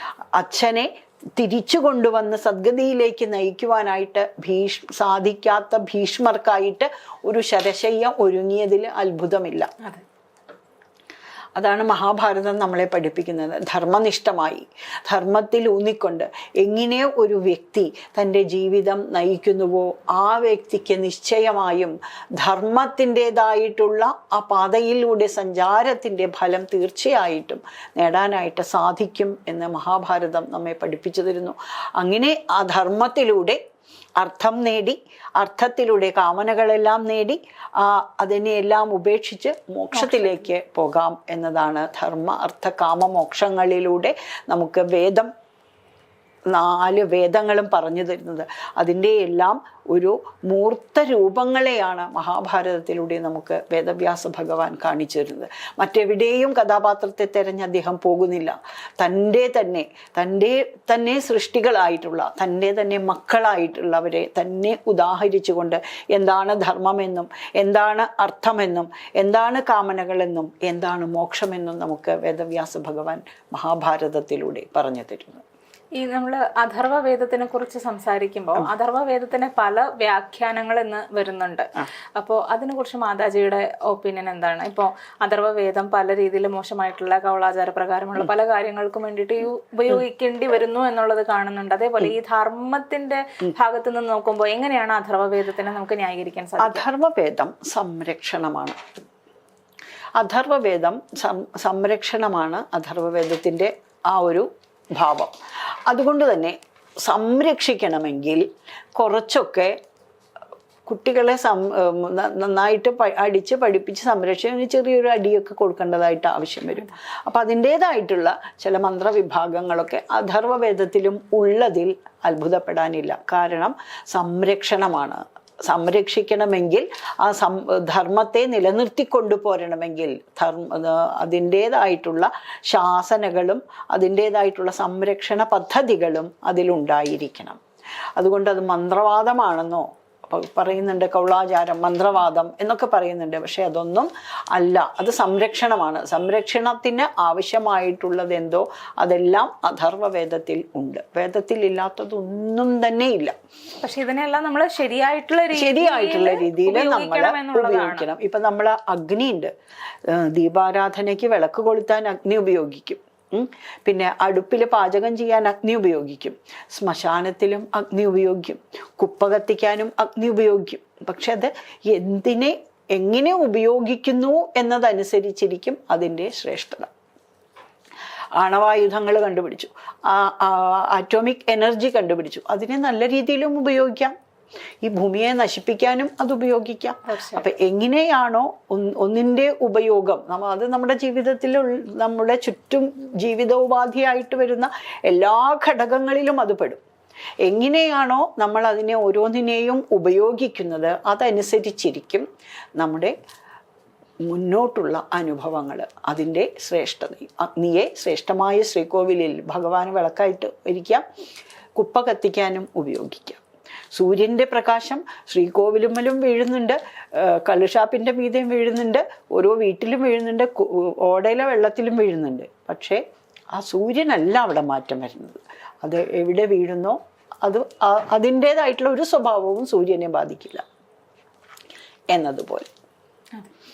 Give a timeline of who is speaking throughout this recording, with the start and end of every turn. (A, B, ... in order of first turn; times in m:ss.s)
0:00.4-0:09.7 A
0:11.6-0:33.6 A
0:34.2-0:45.3 A
0:40.0-0:40.3 B
0:46.5-1:15.4 A
1:16.0-1:36.8 B
1:36.6-1:38.8 A
1:40.2-1:45.3 A
1:45.9-1:49.8 A
1:50.8-2:17.6 A
2:18.2-2:33.3 A
2:33.8-2:38.0 B
2:35.5-2:39.5 A
2:40.1-2:56.9 A
2:58.4-3:04.1 A
3:04.8-3:16.8 A
3:07.0-3:07.5 B
3:17.4-3:22.2 A
3:22.8-3:23.1 A
3:24.2-3:31.0 A
3:31.8-3:33.4 A
3:33.9-3:43.0 A
3:43.5-3:50.6 A
3:52.1-3:52.7 A